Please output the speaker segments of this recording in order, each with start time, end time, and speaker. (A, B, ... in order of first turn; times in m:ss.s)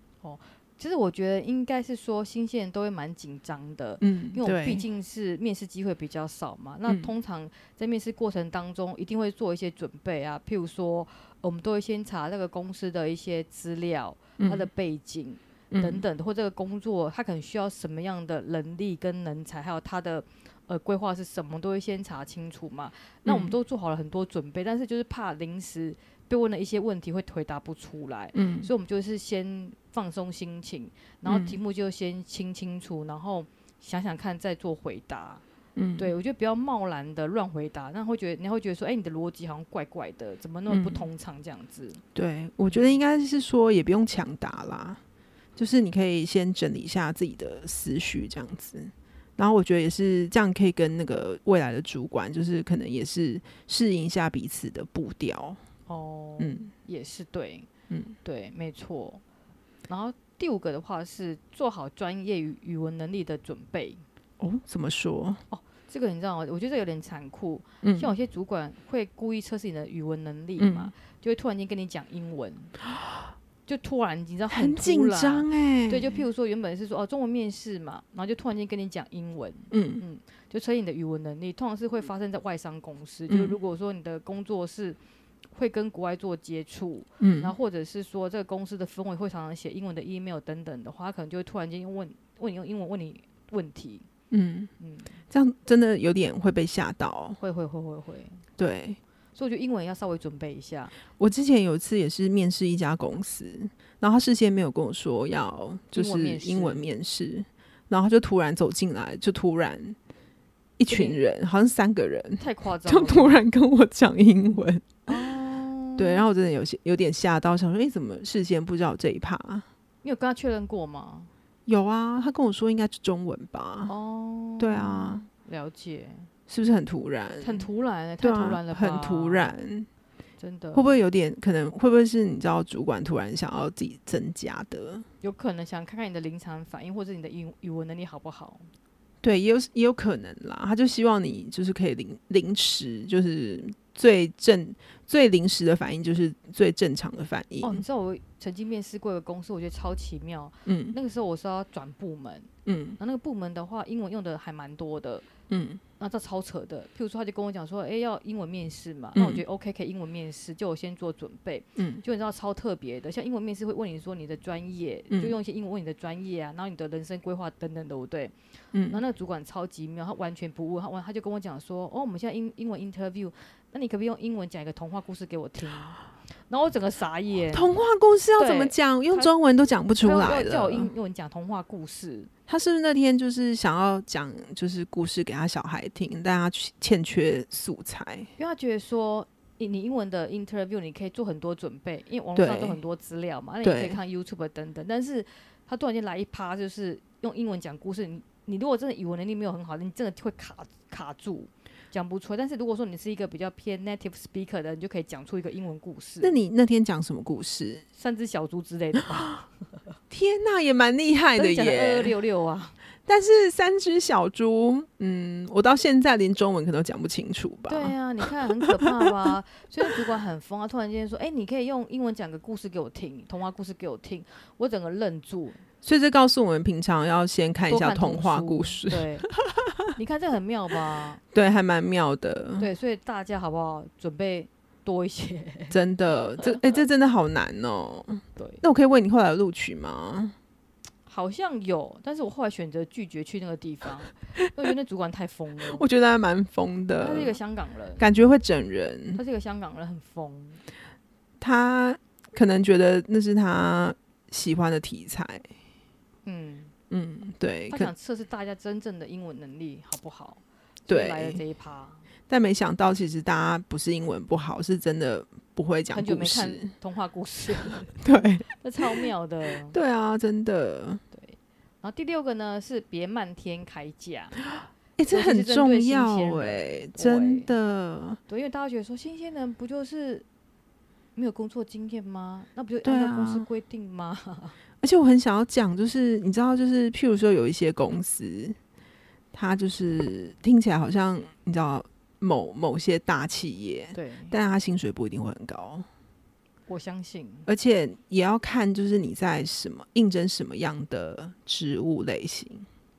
0:00.2-0:35.4 A
0:04.0-0:04.8 B
0:14.4-0:14.7 B
0:15.7-0:16.0 B
0:23.3-0:23.5 B
0:28.3-0:28.7 B
0:31.3-0:31.6 B
0:35.8-0:36.1 B
0:36.0-0:42.0 A
0:40.7-0:41.1 B
0:42.2-0:45.0 B
0:42.7-0:43.0 A
0:45.6-0:55.6 B
0:55.9-0:57.7 A
0:56.4-0:56.7 B
0:57.9-0:58.2 B
0:58.2-0:59.2 A
0:59.9-1:04.0 A
1:04.4-1:05.4 B
1:05.5-1:12.7 A
1:07.8-1:08.1 B
1:10.6-1:10.9 B
1:13.7-1:25.0 A
1:14.5-1:16.2 B
1:19.7-1:20.0 B
1:23.3-1:23.6 B
1:25.5-1:34.1 A
1:27.2-1:27.5 B
1:34.3-1:34.7 B
1:34.8-1:35.1 A
1:35.3-1:37.4 B
1:37.4-1:38.4 A
1:38.6-1:39.0 B
1:39.4-1:40.9 A
1:41.2-1:50.0 B
1:45.9-1:46.8 A
1:50.8-1:55.0 B
1:50.9-1:51.2 A
1:52.4-1:53.4 A
1:55.1-1:56.2 A
1:56.0-1:59.7 B
2:00.0-2:01.3 A
2:01.7-2:03.9 B
2:03.9-2:06.3 A
2:04.6-2:05.2 B
2:06.5-2:07.6 B
2:07.4-2:09.6 A
2:08.2-2:09.9 B
2:10.4-2:11.0 A
2:10.7-2:15.0 B
2:15.2-2:18.7 A
2:19.2-2:27.8 B
2:27.6-2:35.3 A
2:30.7-2:31.0 B
2:32.7-2:33.0 B
2:35.5-2:35.8 B
2:36.0-2:48.4 A
2:39.2-2:39.4 B
2:41.8-2:42.0 B
2:48.7-2:49.0 B
2:48.9-2:57.7 A
2:57.5-3:00.9 B
2:58.4-2:59.3 A
3:00.0-3:02.3 A
3:02.5-3:08.3 B
3:08.4-3:26.4 A
3:12.4-3:12.8 B
3:13.6-3:14.0 B
3:26.2-3:27.8 B
3:28.0-3:29.5 A
3:30.1-3:32.1 B
3:31.4-3:32.8 A
3:33.1-3:38.9 B
3:37.7-3:45.6 A
3:45.8-3:49.7 B
3:47.7-3:49.3 A
3:50.0-3:51.2 A
3:51.3-3:52.7 B
3:52.6-3:56.7 A
3:55.7-4:00.4 B
3:58.4-3:58.6 A
4:01.1-4:05.8 A
4:05.7-4:07.4 B
4:07.0-4:08.1 A
4:08.0-4:09.2 B
4:09.2-4:10.6 A
4:11.4-4:15.5 B
4:16.2-4:16.7 A
4:16.9-4:17.9 B
4:17.7-4:22.0 A
4:20.9-4:21.4 B
4:22.3-4:26.7 B
4:25.9-4:29.8 A
4:28.0-4:29.0 B
4:29.7-4:31.0 B
4:31.1-4:34.4 A
4:35.0-4:38.2 B
4:35.1-4:37.5 A
4:38.3-4:40.2 A
4:41.2-4:44.6 A
4:42.8-4:43.5 B
4:44.8-4:48.6 B
4:49.3-4:55.9 B
4:53.9-4:54.4 A
4:56.7-4:57.5 A
4:57.5-5:02.7 B